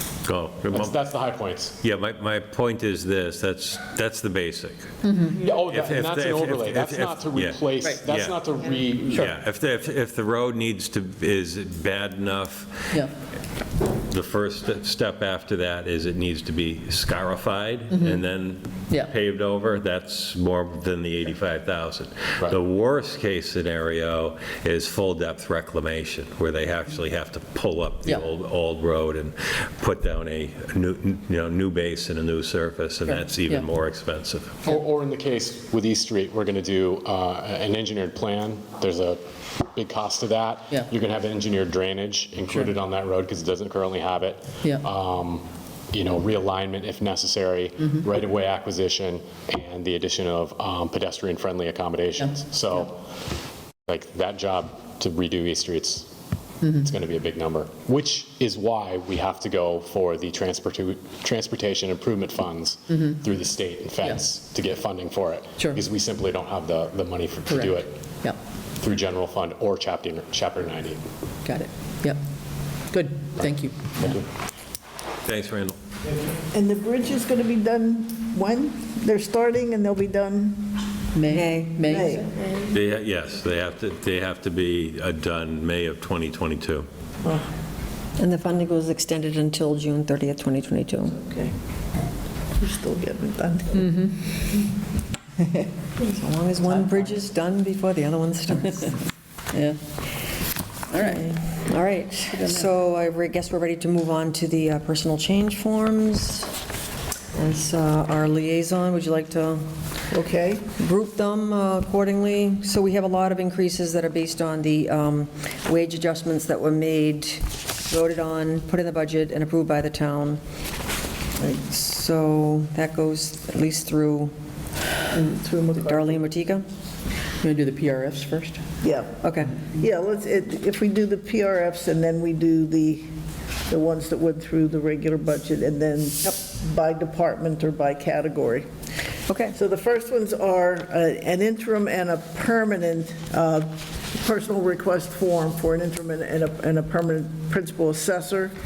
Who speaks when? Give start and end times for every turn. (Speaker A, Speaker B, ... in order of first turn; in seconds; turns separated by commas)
Speaker A: 0.2-1.0, Speaker B: 0.7-1.8, Speaker A: 1.8-4.9, Speaker C: 5.0-5.4, Speaker B: 5.3-9.3, Speaker A: 5.5-8.4, Speaker A: 9.1-12.9, Speaker A: 14.1-34.7, Speaker C: 17.9-18.2, Speaker C: 33.1-33.7, Speaker B: 34.6-39.2, Speaker B: 39.7-53.0, Speaker C: 52.2-52.9, Speaker B: 53.9-56.1, Speaker B: 56.7-67.9, Speaker C: 67.5-68.4, Speaker B: 68.8-71.0, Speaker C: 71.4-72.2, Speaker C: 72.9-74.1, Speaker B: 74.0-74.2, Speaker A: 75.2-75.8, Speaker D: 76.5-80.8, Speaker C: 81.1-82.2, Speaker E: 81.3-82.0, Speaker D: 81.9-82.2, Speaker A: 82.7-86.9, Speaker E: 88.2-91.2, Speaker D: 91.2-91.5, Speaker D: 92.6-93.9, Speaker C: 93.7-94.2, Speaker E: 96.0-99.1, Speaker C: 99.5-99.8, Speaker C: 100.9-101.2, Speaker E: 100.9-106.5, Speaker C: 102.3-102.6, Speaker E: 107.3-109.6, Speaker D: 110.1-110.7, Speaker E: 110.7-120.4, Speaker E: 121.6-124.3, Speaker D: 125.1-126.2, Speaker E: 125.8-126.6, Speaker C: 127.4-128.6, Speaker D: 128.8-133.1, Speaker E: 129.2-129.6, Speaker D: 133.7-138.7, Speaker E: 139.3-139.6, Speaker D: 139.5-148.5